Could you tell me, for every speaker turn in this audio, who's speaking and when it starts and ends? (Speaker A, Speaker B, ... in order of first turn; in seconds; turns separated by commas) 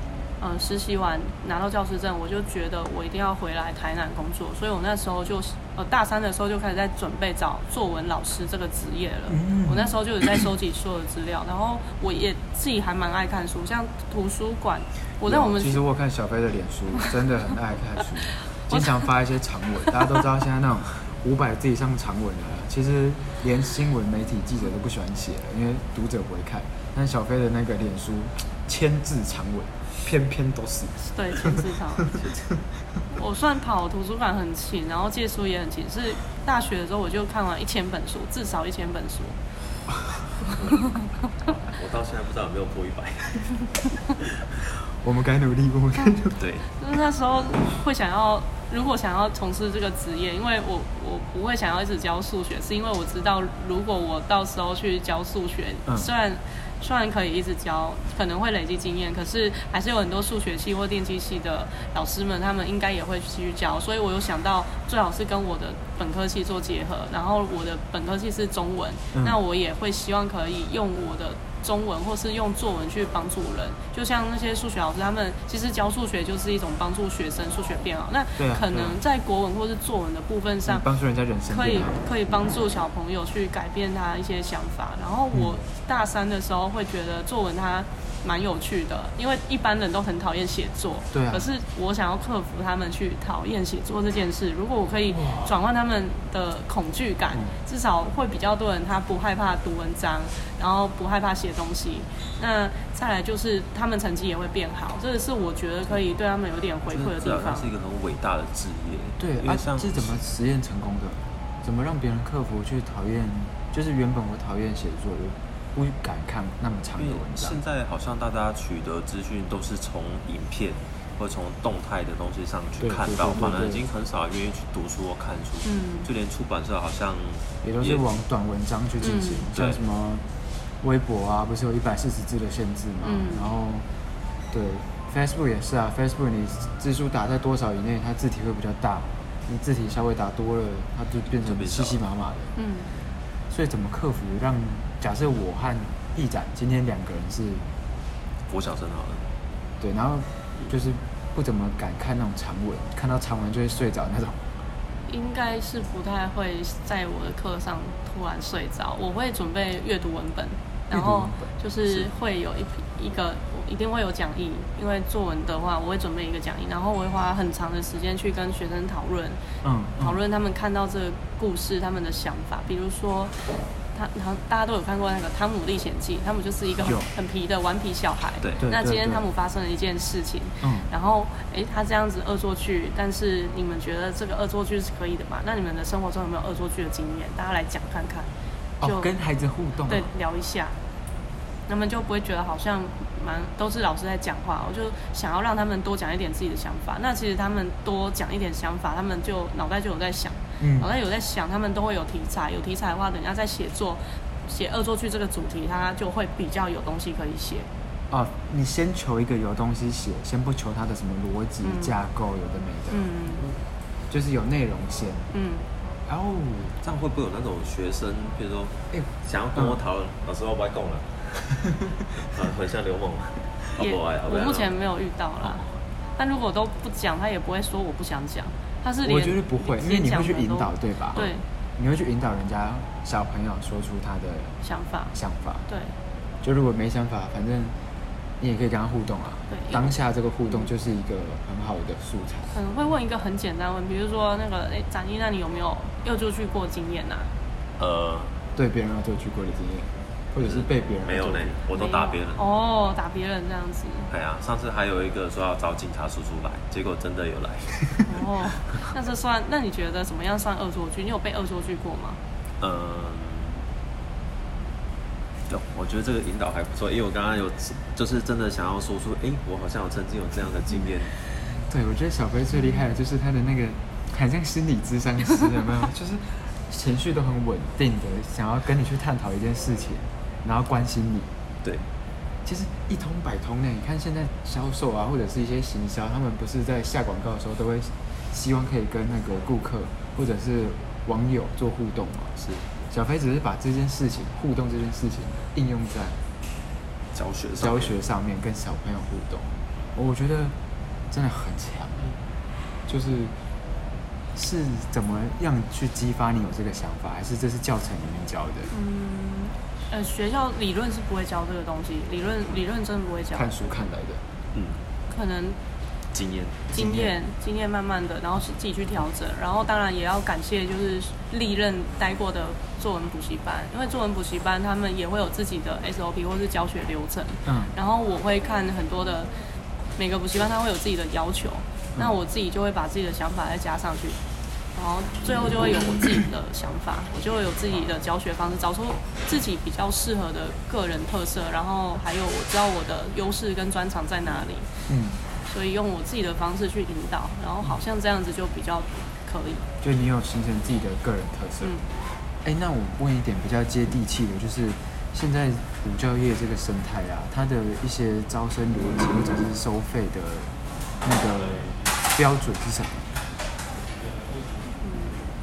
Speaker A: 0.4-15.8, Speaker B: 9.3-9.9, Speaker B: 15.2-32.2, Speaker A: 31.1-32.1, Speaker A: 33.1-39.4, Speaker A: 40.5-41.0, Speaker C: 41.5-44.4, Speaker B: 45.0-46.4, Speaker C: 46.4-46.7, Speaker A: 46.8-80.8, Speaker B: 69.1-69.4, Speaker B: 78.4-79.0, Speaker B: 80.7-82.0, Speaker A: 81.5-107.7, Speaker B: 91.1-91.5, Speaker B: 95.1-95.5, Speaker C: 106.9-110.2, Speaker B: 109.2-117.6, Speaker C: 117.0-128.0, Speaker B: 122.8-123.8, Speaker A: 125.6-126.1, Speaker B: 127.6-130.2, Speaker A: 129.0-129.5, Speaker C: 129.5-129.8, Speaker B: 130.8-133.8, Speaker A: 133.0-133.5, Speaker B: 134.5-142.5, Speaker C: 141.3-142.0, Speaker A: 142.6-142.9, Speaker B: 143.5-147.6, Speaker C: 148.5-149.2, Speaker B: 149.8-154.4, Speaker A: 155.1-169.4, Speaker B: 160.9-161.5, Speaker B: 169.6-170.2, Speaker A: 170.0-173.4, Speaker A: 173.9-188.3, Speaker B: 176.8-177.1, Speaker B: 178.6-179.2, Speaker B: 180.6-180.9, Speaker B: 188.8-190.1, Speaker A: 188.8-189.1, Speaker A: 189.9-190.7, Speaker A: 191.7-207.7, Speaker B: 200.6-200.9, Speaker B: 208.1-213.1, Speaker A: 211.6-212.0, Speaker A: 212.9-213.4, Speaker B: 214.1-215.3, Speaker A: 215.3-215.6, Speaker B: 216.1-216.8, Speaker C: 216.8-224.8, Speaker B: 218.9-219.8, Speaker A: 223.8-225.6, Speaker C: 225.5-225.7, Speaker A: 226.2-231.4, Speaker B: 229.0-234.5, Speaker A: 234.6-235.1, Speaker B: 235.1-235.6, Speaker B: 236.4-237.7, Speaker B: 238.4-242.5, Speaker A: 239.5-239.9, Speaker A: 242.5-247.3, Speaker C: 247.8-248.3, Speaker B: 248.6-251.6, Speaker C: 250.4-252.5, Speaker A: 251.7-254.1, Speaker C: 254.1-258.1, Speaker A: 258.1-262.2, Speaker C: 262.6-263.6, Speaker C: 265.5-271.1, Speaker B: 271.7-281.3, Speaker B: 282.4-292.3, Speaker C: 292.4-292.7, Speaker B: 292.9-296.2, Speaker C: 297.1-297.9, Speaker B: 297.6-300.5, Speaker B: 301.1-302.1, Speaker B: 302.9-303.3, Speaker B: 304.3-308.7, Speaker A: 308.7-313.5, Speaker B: 313.3-314.2, Speaker C: 314.5-314.8, Speaker A: 315.1-315.6, Speaker C: 316.1-316.7, Speaker B: 316.7-317.1, Speaker A: 316.7-329.3, Speaker B: 327.4-327.7, Speaker A: 330.0-334.2, Speaker A: 334.7-344.7, Speaker B: 344.9-345.2, Speaker A: 345.4-349.6, Speaker B: 349.8-351.8, Speaker B: 352.4-360.5, Speaker B: 361.0-363.2, Speaker A: 364.8-365.3